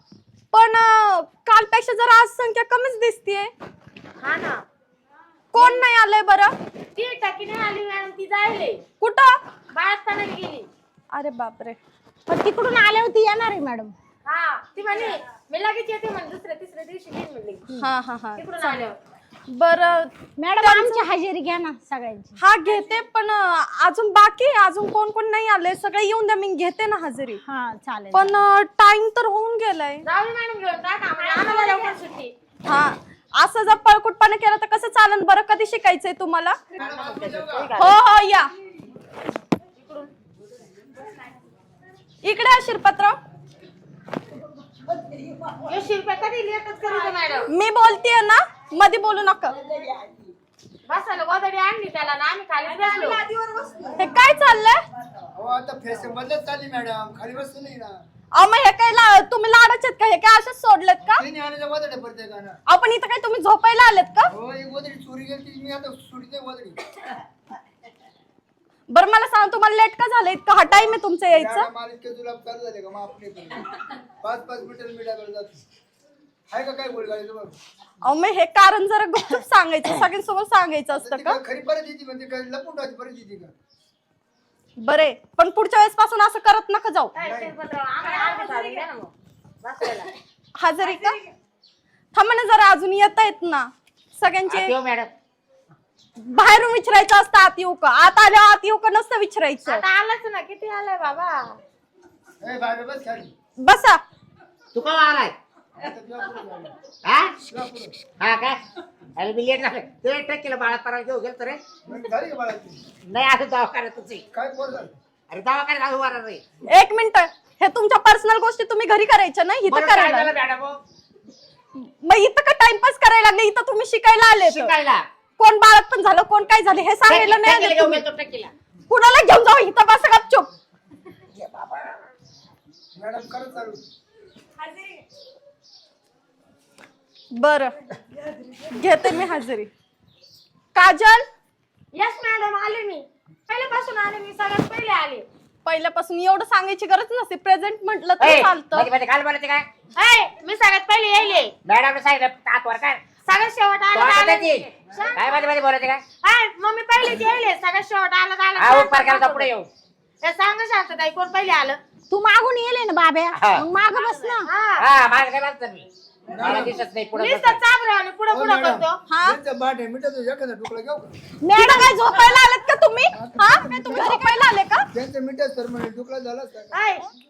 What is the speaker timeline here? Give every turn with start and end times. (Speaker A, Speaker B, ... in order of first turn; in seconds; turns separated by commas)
Speaker A: 0.5-3.5, Speaker B: 4.2-4.6, Speaker A: 5.5-6.5, Speaker B: 5.5-5.9, Speaker B: 7.0-8.8, Speaker A: 9.0-9.4, Speaker B: 9.7-10.7, Speaker A: 11.1-11.8, Speaker C: 12.3-13.9, Speaker B: 14.3-17.7, Speaker A: 17.8-18.7, Speaker B: 18.4-19.0, Speaker A: 19.5-21.0, Speaker C: 20.4-22.4, Speaker A: 22.4-27.4, Speaker C: 27.4-28.4, Speaker A: 28.1-30.0, Speaker B: 30.0-32.3, Speaker C: 31.4-31.9, Speaker A: 32.7-36.6, Speaker D: 36.8-37.7, Speaker B: 36.9-38.0, Speaker A: 37.8-38.5, Speaker B: 39.8-40.1, Speaker A: 42.2-43.2, Speaker B: 45.7-47.5, Speaker A: 47.5-49.6, Speaker B: 50.9-53.2, Speaker A: 54.0-54.8, Speaker D: 55.4-58.0, Speaker A: 58.4-61.2, Speaker D: 61.0-62.6, Speaker A: 62.7-64.3, Speaker D: 64.3-66.8, Speaker A: 68.9-71.7, Speaker D: 71.3-73.6, Speaker D: 74.2-75.6, Speaker D: 76.5-77.6, Speaker A: 78.0-81.4, Speaker D: 80.9-83.5, Speaker A: 84.8-87.1, Speaker B: 87.2-90.1, Speaker D: 87.2-87.5, Speaker A: 90.6-91.2, Speaker B: 90.8-91.1, Speaker A: 92.1-94.7, Speaker E: 94.5-95.1, Speaker A: 96.3-99.8, Speaker B: 99.7-101.6, Speaker D: 102.4-103.3, Speaker A: 103.6-104.0, Speaker E: 104.7-105.3, Speaker D: 105.8-106.7, Speaker E: 107.0-107.4, Speaker D: 107.4-108.0, Speaker E: 108.2-108.6, Speaker E: 109.2-111.6, Speaker D: 111.9-112.8, Speaker E: 113.0-114.2, Speaker D: 114.3-114.9, Speaker E: 115.3-116.4, Speaker A: 116.7-120.3, Speaker E: 119.7-120.8, Speaker A: 121.8-124.7, Speaker E: 124.4-125.1, Speaker A: 125.4-128.0, Speaker E: 127.1-128.5, Speaker A: 128.9-130.5, Speaker E: 131.4-132.0, Speaker D: 132.9-133.8, Speaker A: 137.4-137.7, Speaker A: 138.7-139.7, Speaker A: 140.8-141.2, Speaker B: 141.9-145.2, Speaker A: 145.7-148.9, Speaker E: 148.2-149.7, Speaker B: 150.0-151.5, Speaker E: 151.7-153.0, Speaker B: 153.3-155.4, Speaker E: 153.9-156.0, Speaker B: 156.2-159.5, Speaker E: 158.6-159.7, Speaker B: 160.2-161.8, Speaker C: 162.1-164.5, Speaker E: 163.4-163.6, Speaker B: 164.5-164.8, Speaker E: 164.8-165.9, Speaker D: 166.3-166.8, Speaker E: 166.4-167.6, Speaker B: 167.1-169.0, Speaker D: 168.3-171.1, Speaker A: 169.1-169.4, Speaker C: 171.4-172.0, Speaker A: 171.6-174.8, Speaker D: 173.1-174.3, Speaker D: 174.9-176.7, Speaker B: 176.7-177.1